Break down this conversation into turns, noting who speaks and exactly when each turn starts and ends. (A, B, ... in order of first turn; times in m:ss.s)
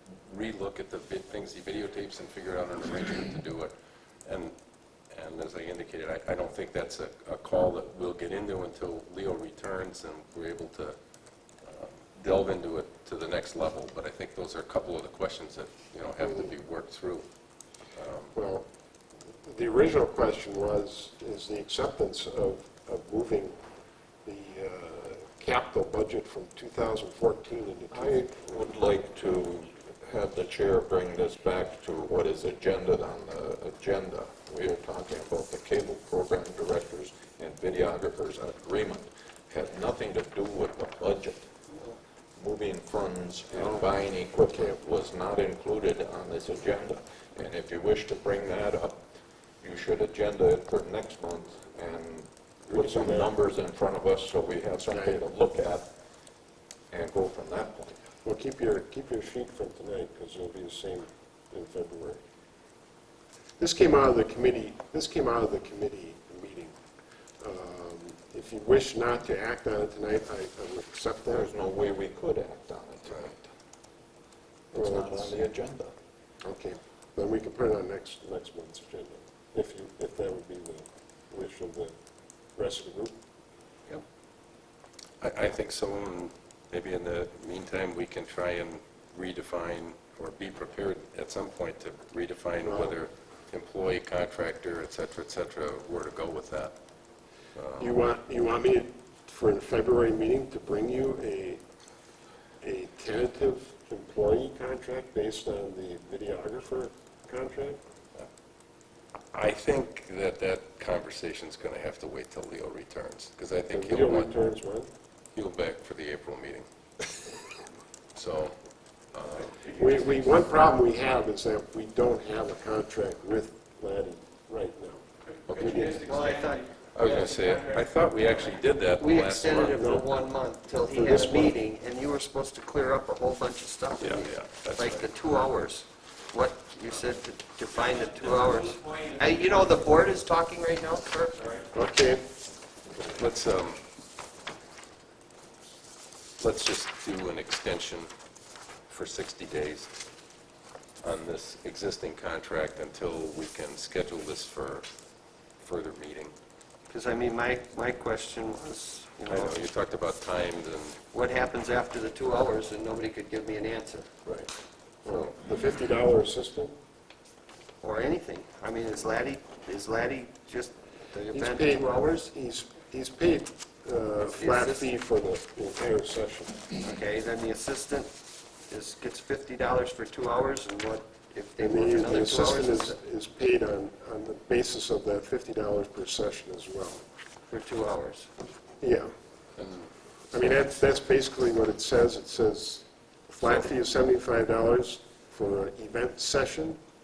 0:00.2-0:03.7 A
0:04.2-0:04.5 A
0:05.1-0:11.0 A
0:11.6-0:17.3 A
0:16.2-0:16.5 B
0:17.9-0:18.3 A
0:18.3-0:18.7 B
0:19.4-0:23.6 B
0:24.2-0:28.2 B
0:27.9-0:41.5 C
0:42.4-0:49.0 C
0:49.6-0:55.9 C
0:52.7-0:53.3 B
0:54.9-0:55.2 B
0:56.9-0:58.0 C
0:58.2-1:02.2 B
1:03.6-1:06.7 B
1:07.4-1:11.5 B
1:11.3-1:13.5 C
1:14.7-1:15.9 C
1:14.7-1:15.4 B
1:16.4-1:21.9 B
1:22.6-1:23.2 B
1:25.2-1:36.7 A
1:32.6-1:33.0 B
1:37.6-1:38.0 A
1:37.8-1:41.6 B
1:42.6-1:47.8 B
1:49.3-1:54.3 A
1:53.7-1:54.9 B
1:55.3-1:56.7 A
1:58.1-1:58.6 A
1:59.1-2:00.2 A
1:59.7-2:06.0 B
2:05.4-2:06.0 A
2:05.7-2:07.3 D
2:06.9-2:10.0 A
2:09.0-2:21.7 D
2:09.7-2:10.0 B
2:10.9-2:11.6 B
2:14.0-2:15.1 A
2:21.7-2:22.2 B
2:23.1-2:23.8 A
2:26.4-2:28.1 A
2:28.9-2:29.9 A
2:31.0-2:34.9 A
2:35.6-2:36.3 A
2:36.9-2:39.6 D
2:39.3-2:41.0 A
2:41.1-2:44.1 D
2:45.0-2:46.7 B
2:47.8-2:52.3 D
2:51.3-2:56.7 B
2:54.2-2:54.9 D
2:56.8-2:58.1 D
2:58.7-3:03.0 D
3:01.6-3:07.0 B
3:07.5-3:08.3 D
3:08.8-3:09.1 B
3:09.6-3:09.9 A
3:10.3-3:16.8 B
3:13.4-3:13.7 D